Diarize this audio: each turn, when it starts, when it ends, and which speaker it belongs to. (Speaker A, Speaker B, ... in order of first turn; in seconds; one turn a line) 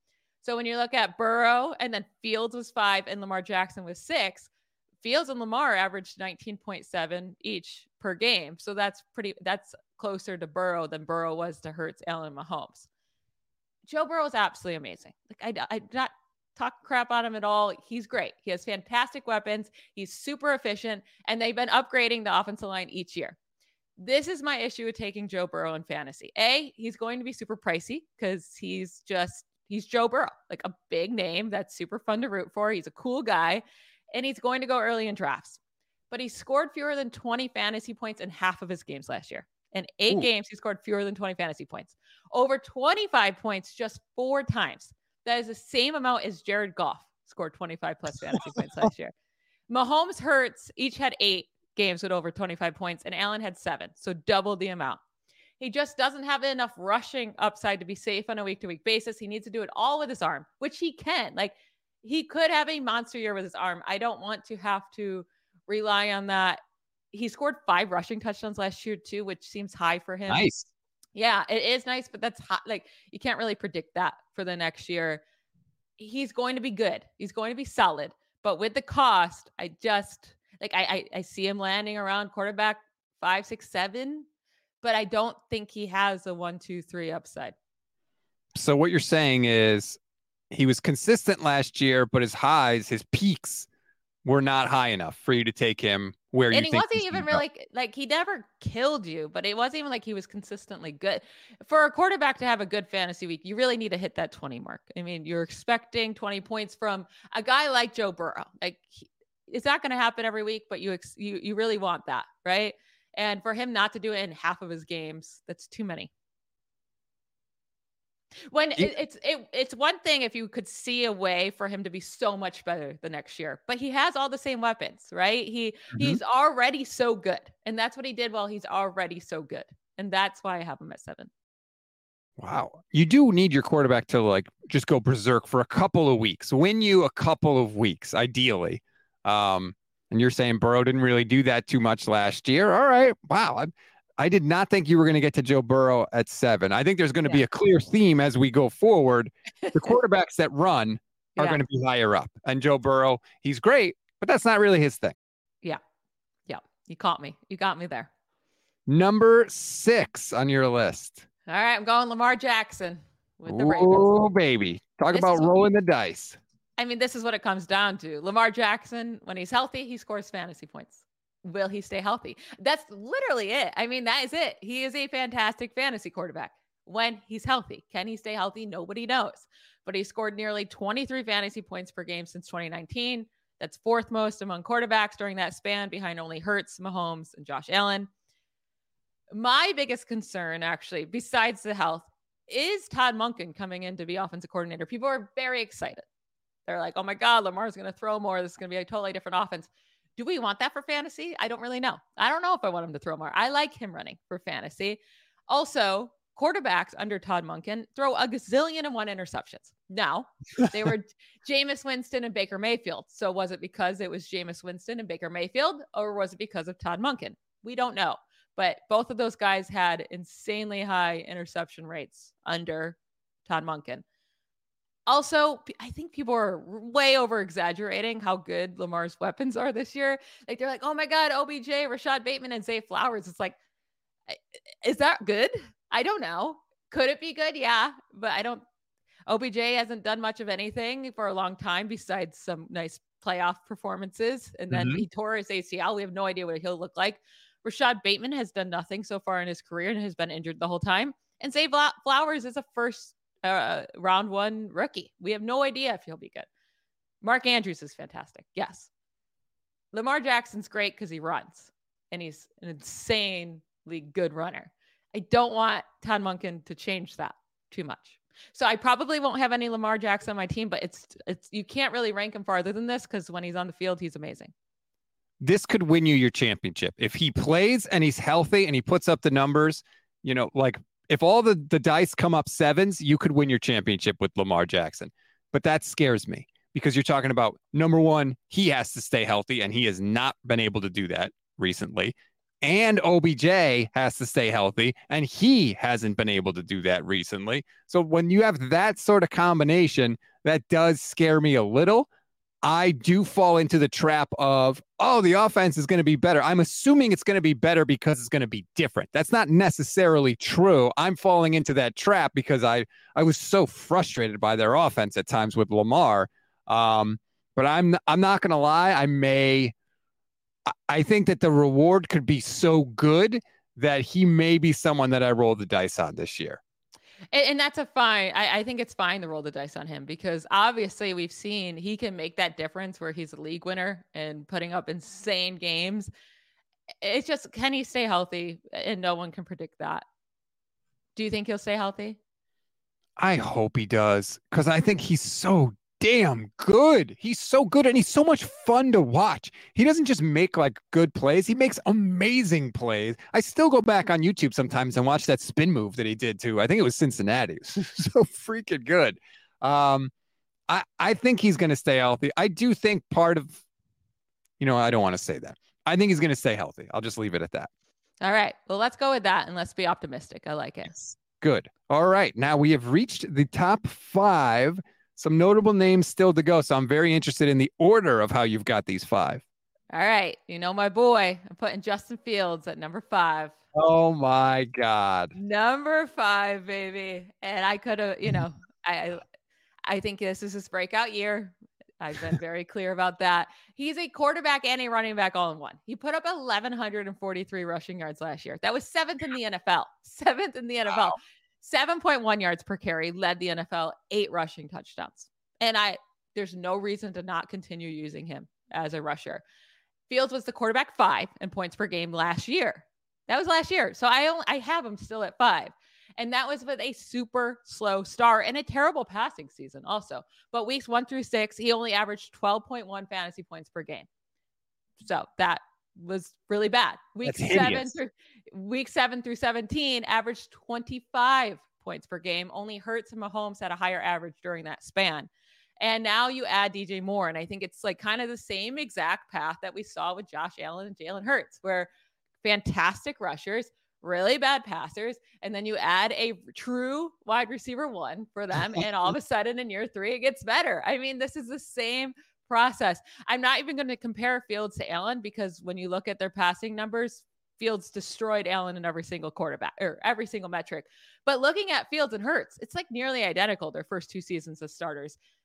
Speaker A: 0.4-4.5
Speaker A: 5.0-12.9
Speaker A: 13.9-23.4
Speaker A: 24.0-35.6
Speaker A: 36.1-49.1
Speaker A: 49.7-55.0
Speaker A: 55.6-66.6
Speaker A: 67.1-70.5
Speaker B: 70.3-70.7
Speaker A: 71.1-75.2
Speaker A: 76.0-84.2
Speaker A: 84.8-87.5
Speaker B: 88.5-90.0
Speaker B: 90.5-93.7
Speaker B: 94.2-97.4
Speaker A: 96.5-116.1
Speaker A: 118.5-131.3
Speaker B: 125.9-126.2
Speaker B: 132.4-155.1
Speaker A: 156.5-158.1
Speaker B: 158.9-161.2
Speaker A: 161.5-164.2
Speaker B: 163.5-166.4
Speaker A: 165.1-165.7
Speaker A: 166.8-188.1
Speaker A: 189.3-196.0
Speaker A: 196.7-224.0
Speaker A: 225.1-233.6
Speaker A: 234.3-238.6
Speaker A: 239.3-256.5
Speaker B: 244.7-245.0
Speaker A: 257.2-258.9
Speaker A: 259.9-274.5
Speaker B: 275.4-302.1
Speaker B: 302.6-319.7
Speaker B: 320.7-326.6
Speaker A: 327.3-336.1
Speaker A: 337.0-340.0
Speaker A: 341.1-342.2
Speaker B: 343.2-360.1
Speaker B: 360.7-363.6
Speaker B: 364.6-367.7
Speaker A: 368.2-370.9
Speaker B: 370.9-379.4
Speaker A: 379.9-383.5
Speaker B: 383.7-385.3
Speaker A: 385.3-389.2
Speaker A: 389.9-409.4
Speaker A: 410.1-424.1
Speaker A: 425.0-435.3
Speaker B: 427.2-427.9
Speaker A: 435.8-441.9
Speaker A: 442.4-465.2